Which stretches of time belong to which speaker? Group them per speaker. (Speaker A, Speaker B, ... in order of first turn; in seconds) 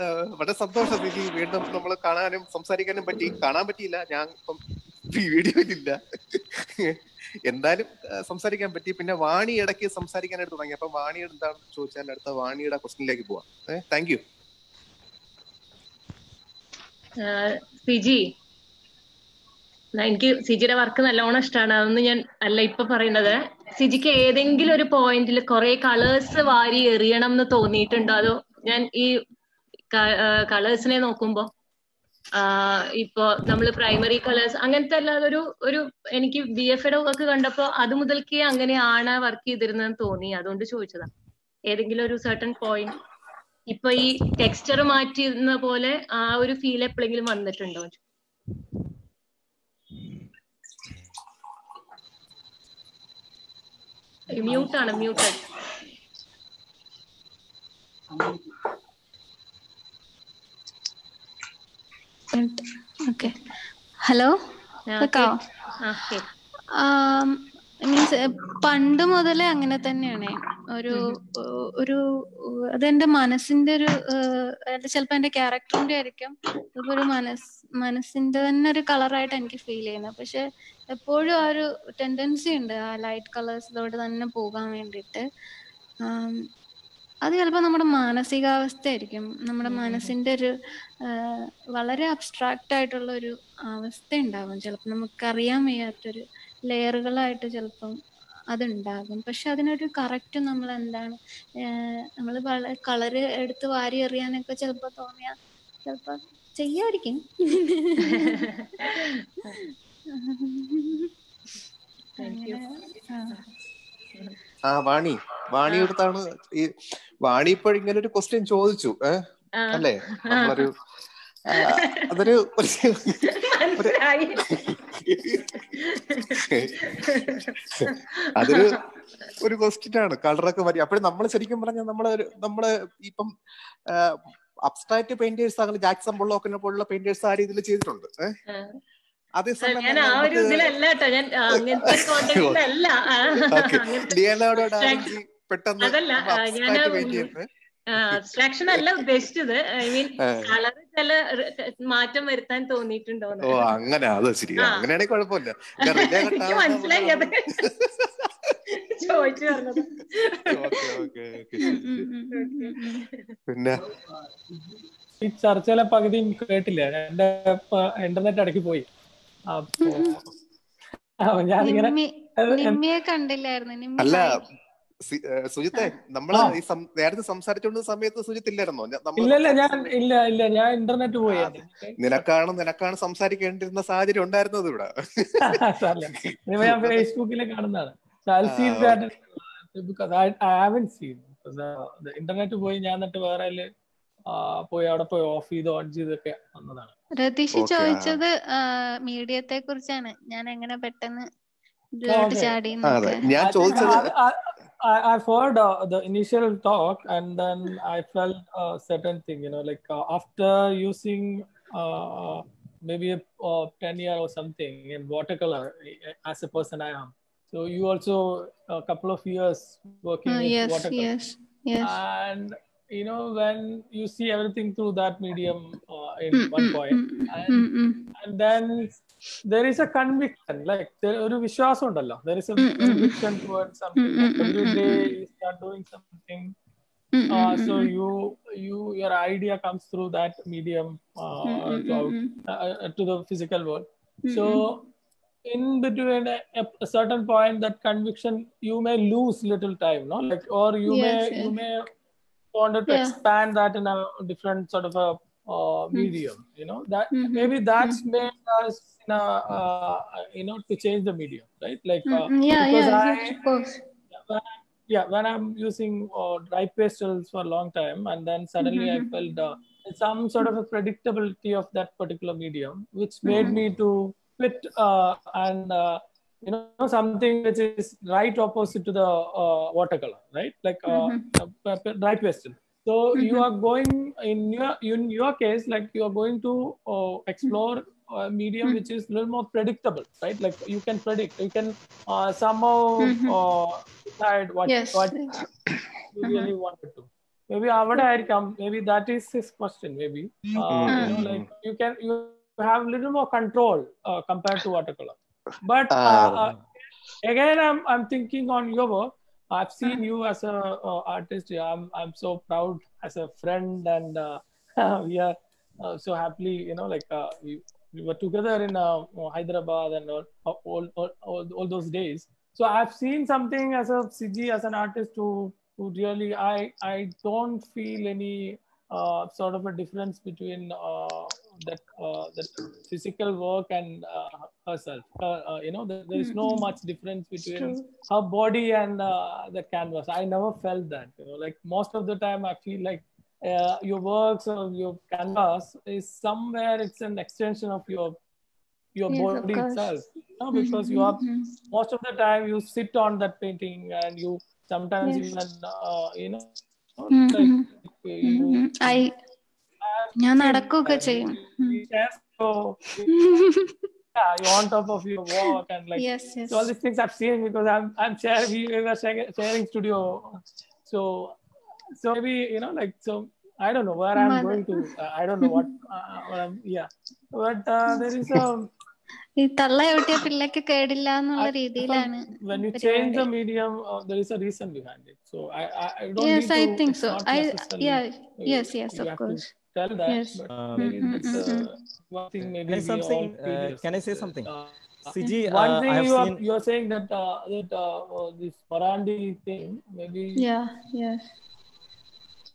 Speaker A: 0.4-4.6, 5.1-6.0, 7.5-14.2, 114.7-116.7, 117.2-119.2, 119.8-120.7, 121.6-123.1, 128.4-128.7, 129.4-133.3, 134.7-138.3, 139.4-140.8, 141.7-142.7, 143.5-147.4, 148.1-149.0, 150.0-150.4, 153.5-157.7, 160.5-162.1, 163.5-163.8, 174.0-174.3, 175.1-179.9, 181.3-185.4, 186.6-187.0, 188.5-189.0, 197.6-198.2, 202.9-204.1, 300.6-301.5, 306.0-306.4
Speaker B: 17.2-18.2, 20.0-29.1, 29.9-31.5, 32.4-41.1, 41.7-43.0, 43.7-48.0, 54.3-55.5, 64.9-66.3, 108.0-109.1, 112.2-112.6, 115.7-115.9, 119.6-120.6, 121.6-122.3, 123.2-124.4, 125.7-128.8, 138.5-138.8, 139.6-145.1, 145.8-147.3, 147.9-153.8, 154.6-154.9, 155.8-157.5, 158.9-161.0, 162.1-163.3
Speaker C: 62.3-63.3, 64.0-64.3, 65.0-65.4, 66.8-72.0, 72.8-85.2, 86.0-86.4, 87.2-90.5, 91.0-98.0, 98.5-109.0, 110.1-111.1, 112.2-113.4, 161.6-163.0, 169.8-170.1, 171.6-174.4, 197.2-201.3, 202.0-203.9, 220.3-221.9, 226.4-228.0, 232.6-233.2, 234.0-235.0, 237.2-237.9, 241.5-242.4, 244.3-244.6, 250.9-251.5, 252.9-253.2, 257.1-258.0, 262.1-263.8, 268.6-269.1, 273.3-273.6, 280.9-281.2, 283.2-283.4, 293.0-293.4, 294.7-295.4, 296.2-296.5, 300.9-301.2, 336.2-336.7, 337.4-337.9, 349.1-349.9, 350.5-351.5, 355.0-355.3, 357.1-357.6, 358.2-359.1, 360.2-361.8, 363.1-363.7, 366.0-366.7, 374.2-374.8, 377.9-378.4, 379.4-383.3, 386.2-389.4, 390.1-391.7, 400.4-401.2
Speaker D: 165.2-168.9, 169.5-170.2, 171.3-172.8, 179.2-182.2, 185.4-193.7, 194.3-196.9, 202.1-202.6, 203.4-221.1, 221.8-228.9, 229.5-236.6, 237.3-244.8, 245.5-251.9, 252.5-263.4, 264.1-295.2, 296.1-306.5, 307.2-348.2, 348.9-351.2, 351.7-359.0, 359.8-363.1, 364.2-371.4, 372.0-378.7, 381.4-394.8, 395.5-400.4
Speaker E: 390.5-391.0, 392.4-394.5, 395.1-396.4